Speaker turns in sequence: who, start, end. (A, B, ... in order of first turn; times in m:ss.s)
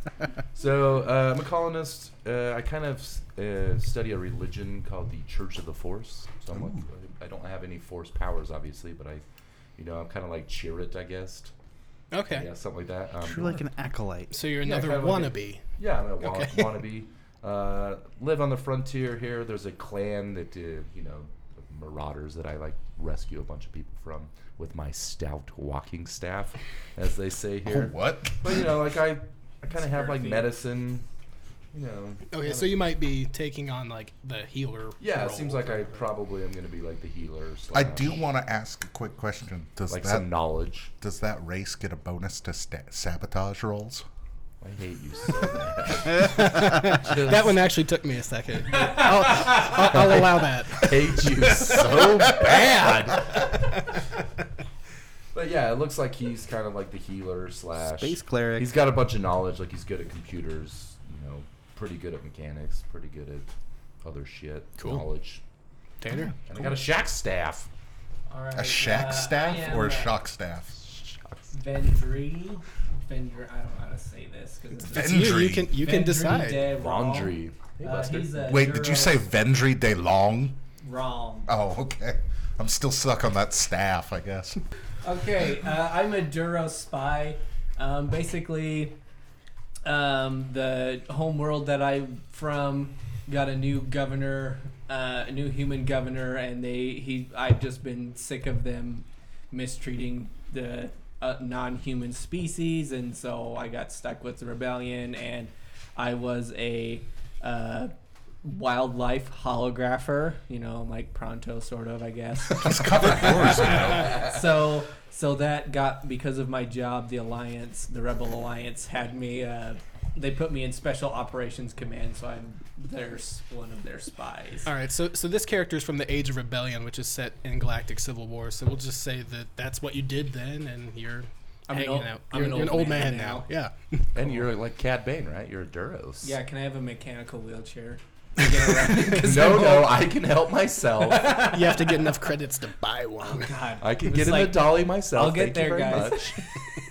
0:00.5-0:09.2 A
0:06.5-0:06.8 B
0:09.8-0:11.5 A
0:12.1-0:12.5 C
0:12.3-0:13.6 A
0:13.2-0:14.3 D
0:14.3-0:15.6 C
0:14.6-0:31.0 A
0:16.2-0:16.7 C
0:27.6-0:28.7 B
0:29.7-0:30.5 E
0:31.7-0:32.8 A
0:32.3-0:36.0 C
0:35.0-0:38.2 A
0:37.7-0:40.3 B
0:39.9-0:40.9 A
0:41.0-0:44.0 B
0:44.6-0:47.6 A
0:46.2-0:52.6 C
0:49.5-0:53.9 A
0:52.3-0:52.5 B
0:55.3-1:03.5 A
0:57.8-0:58.7 D
1:04.0-1:05.4 A
1:04.8-1:05.0 C
1:06.0-1:06.3 C
1:06.4-1:07.7 A
1:08.3-1:10.1 E
1:08.5-1:10.8 B
1:10.9-1:11.4 A
1:11.5-1:19.2 E
1:14.9-1:15.7 B
1:14.9-1:16.6 C
1:16.7-1:18.4 A
1:18.4-1:20.6 B
1:20.8-1:21.5 E
1:21.5-1:24.6 B
1:25.0-1:29.0 E
1:29.8-2:04.7 E
1:52.5-1:54.2 B
2:04.6-2:14.2 C
2:11.7-2:13.5 E
2:14.1-2:16.4 A
2:16.2-2:20.1 E
2:18.8-2:21.4 A
2:21.0-2:22.2 E
2:21.4-2:23.5 C
2:23.2-2:26.6 E
2:23.8-2:26.4 A